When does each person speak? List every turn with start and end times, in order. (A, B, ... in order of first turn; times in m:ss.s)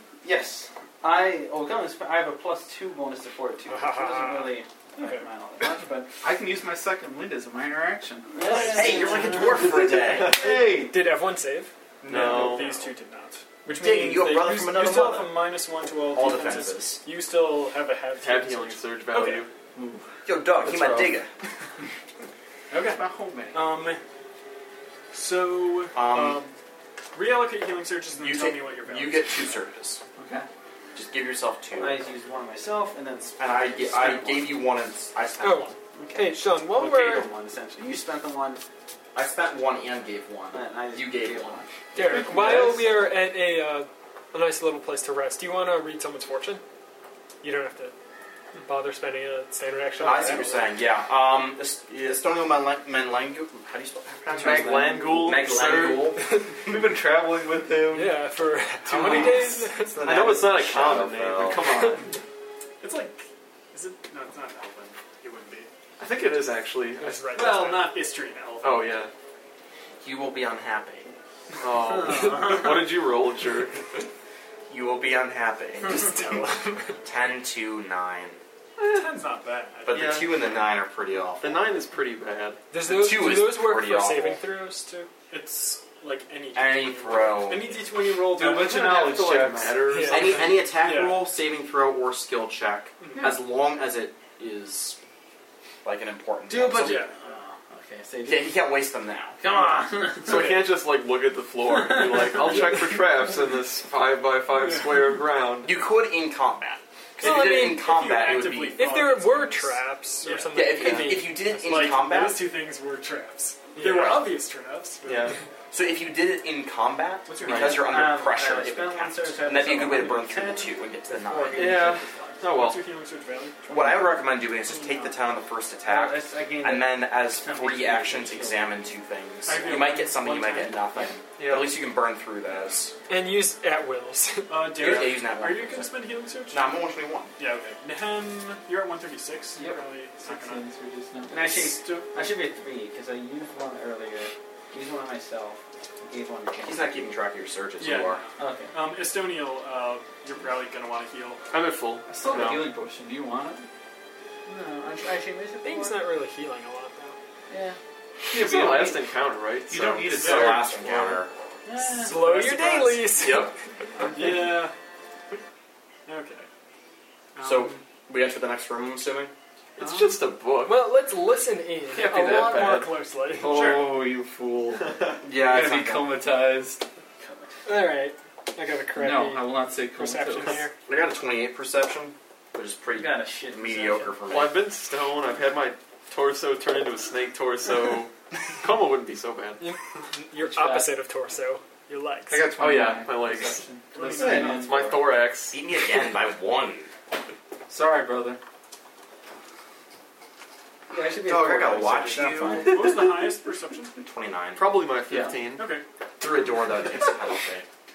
0:00.2-0:06.1 A
0:03.7-0:05.2 B
0:06.2-0:08.6 C
0:08.3-0:09.6 A
0:08.4-0:09.7 D
0:08.5-0:09.1 B
0:08.7-0:10.4 E
0:10.1-0:11.0 C
0:10.7-0:11.7 B
0:12.0-0:19.4 D
0:12.0-0:12.8 F
0:12.5-0:13.0 B
0:13.7-0:15.4 E
0:16.1-0:17.0 E
0:18.2-0:19.5 F
0:19.7-0:20.1 C
0:20.2-0:21.3 E
0:20.6-0:21.1 C
0:22.7-0:24.0 D
0:23.0-0:23.5 A
0:25.1-0:26.6 D
0:25.9-0:26.4 E
0:27.1-0:29.5 D
0:28.2-0:30.0 E
0:30.2-0:30.4 C
0:30.9-0:32.0 E
0:31.8-0:34.6 A
0:33.4-0:35.7 E
0:35.4-0:37.3 B
0:36.0-0:38.6 A
0:39.1-0:41.6 E
0:40.5-0:42.6 A
0:41.9-0:46.6 B
0:42.2-0:42.7 E
0:47.4-0:47.9 B
0:48.6-0:50.6 B
0:50.0-0:56.2 E
0:54.3-0:56.1 F
0:54.4-0:55.5 A
0:56.6-0:58.2 C
0:57.9-1:00.1 B
0:58.8-1:01.6 E
0:59.0-0:59.4 F
1:00.0-1:02.1 F
1:02.8-1:05.7 D
1:06.0-1:07.3 F
1:07.0-1:07.9 B
1:07.3-1:09.1 D
1:08.6-1:09.1 F
1:10.0-1:11.1 E
1:11.6-1:13.8 F
1:12.2-1:12.8 A
1:14.7-1:16.4 E
1:15.8-1:17.0 B
1:17.0-1:18.4 E
1:18.8-1:20.3 D
1:19.9-1:21.6 E
1:19.9-1:20.3 F
1:21.4-1:22.6 F
1:22.7-1:25.1 B
1:22.8-1:24.4 E
1:25.3-1:29.2 D
1:26.5-1:27.8 E
1:28.3-1:29.8 C
1:28.5-1:30.5 F
1:29.9-1:30.3 B
1:30.0-1:35.0 E
1:30.2-1:31.3 D
1:33.0-1:33.3 D
1:35.8-1:37.1 E
1:36.5-1:38.6 A
1:36.8-1:37.1 D
1:38.2-1:39.4 E
1:39.4-1:40.6 A
1:40.2-1:45.7 F
1:41.6-1:42.6 A
1:44.6-1:45.0 D
1:45.6-1:48.8 E
1:47.2-1:48.2 B
1:47.2-1:50.7 D
1:48.7-1:52.2 B
1:50.5-1:52.4 E
1:51.6-1:55.4 D
1:53.8-1:54.2 E
1:55.0-1:55.4 F
1:55.7-2:01.8 E
1:57.3-1:57.7 D
1:57.3-2:02.4 A
2:01.5-2:02.8 F
2:02.5-2:03.6 D
2:03.7-2:12.9 E
2:04.6-2:05.2 D
2:05.8-2:08.8 A
2:09.4-2:10.9 D
2:11.4-2:11.8 F
2:13.1-2:14.8 B
2:14.5-2:16.6 D
2:14.8-2:15.9 E
2:16.5-2:17.3 E
2:17.4-2:20.6 D
2:19.6-2:21.7 C
2:21.3-2:27.1 A
2:21.8-2:22.1 D
2:26.6-2:28.2 E
2:27.8-2:31.4 D
2:28.4-2:28.7 A
2:31.5-2:32.7 F
2:32.1-2:33.7 C
2:34.4-2:36.0 A
2:35.6-2:37.2 B
2:37.5-2:37.8 A
2:38.3-2:41.2 F
2:38.3-2:39.0 C
2:39.7-2:41.3 E
2:40.2-2:40.6 D
2:41.6-2:43.0 A
2:41.9-2:43.5 B
2:43.2-2:43.5 F
2:44.1-2:44.7 D
2:46.0-2:46.5 D
2:47.3-2:47.8 D
2:47.4-2:49.3 E
2:49.8-2:50.9 F
2:49.8-2:50.2 D
2:50.6-2:53.8 B
2:51.9-2:53.0 F
2:52.1-2:52.5 C
2:53.4-2:56.8 C
2:55.2-2:56.2 E
2:57.2-2:57.9 A
2:57.6-3:00.7 B
2:59.0-3:00.6 C
3:00.8-3:04.6 E
3:02.9-3:04.2 A
3:04.2-3:09.7 F
3:09.6-3:12.5 B
3:10.3-3:10.9 C
3:12.3-3:15.1 C
3:12.5-3:15.6 F
3:13.9-3:14.6 D
3:15.5-3:16.9 E
3:17.7-3:18.4 C
3:20.9-3:22.9 A
3:21.2-3:22.7 E
3:22.6-3:24.0 D
3:24.0-3:24.7 E
3:24.6-3:25.8 F
3:25.1-3:25.4 C
3:25.6-3:25.8 D
3:26.2-3:27.7 E